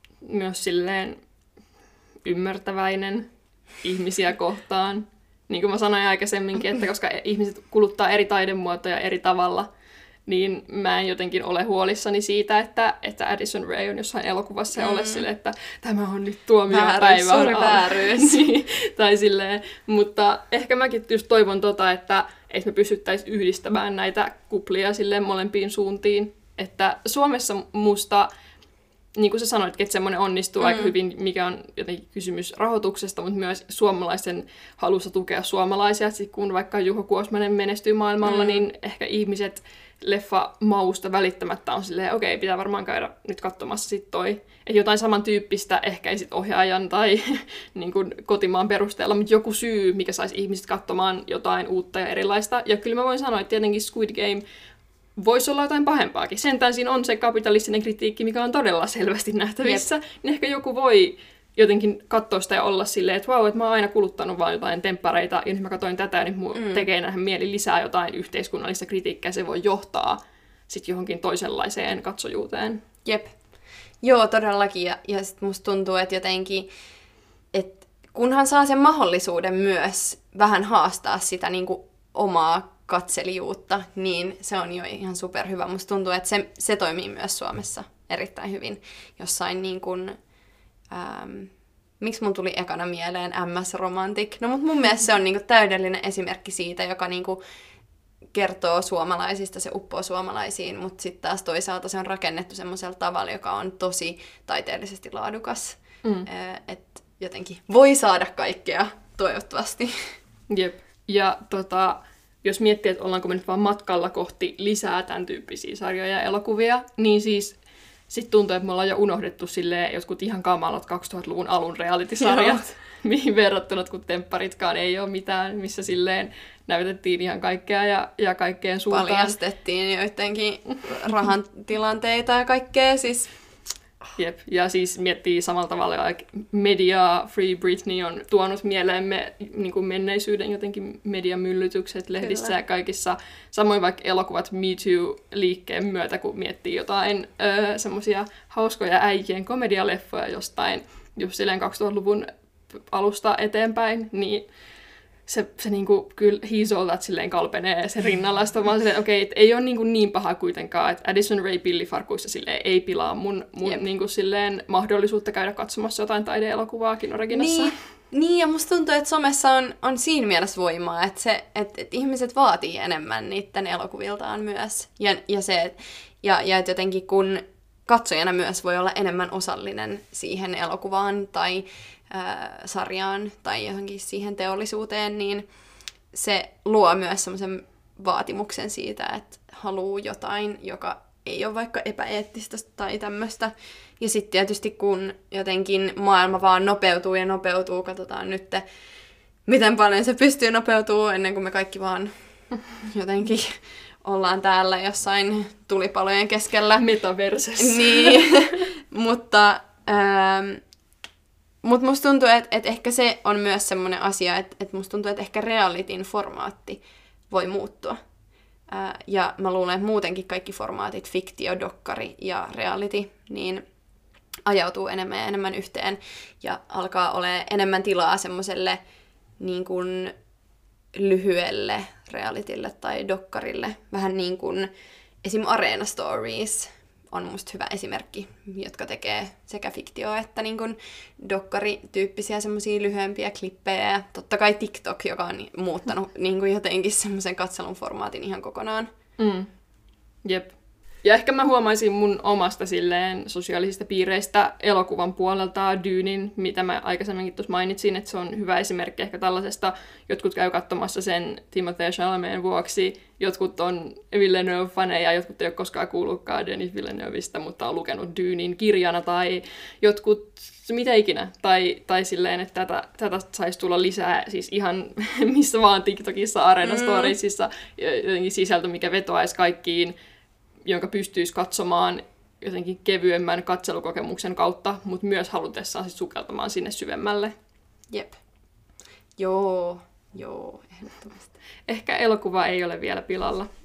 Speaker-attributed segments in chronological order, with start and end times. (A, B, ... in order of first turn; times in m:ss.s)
0:00.2-0:01.2 A
0:02.2-0:03.3 A
0:03.8-0:09.7 A
0:10.3-0:28.3 A
0:14.8-0:15.2 B
0:16.7-0:18.4 B
0:29.2-0:54.4 A
0:30.6-0:30.9 B
0:38.2-0:38.6 B
0:55.2-1:12.8 A
1:06.5-1:06.8 B
1:13.0-1:13.3 B
1:14.0-1:16.7 B
1:17.5-1:30.2 B
1:30.9-1:37.4 B
1:38.3-1:49.9 B
1:50.5-1:57.6 A
1:58.1-2:09.4 A
2:02.2-2:02.6 B
2:08.9-2:13.3 B
2:14.2-2:34.5 A
2:22.2-2:22.6 B
2:35.3-2:47.7 A
2:47.3-3:05.4 B
3:06.1-3:18.6 B
3:19.4-3:22.1 B
3:22.7-3:26.8 B
3:26.8-3:28.6 A
3:27.6-3:30.6 B
3:31.6-3:38.0 B
3:38.7-3:43.6 B
3:44.4-3:48.8 B
3:49.4-3:50.1 B
3:50.9-3:54.7 B
3:55.2-4:08.9 B
4:09.2-4:09.5 A
4:10.2-4:39.9 A
4:36.6-4:37.1 B
4:40.6-4:47.3 A
4:47.9-4:48.2 B
4:49.2-4:51.3 B
4:51.7-4:53.5 A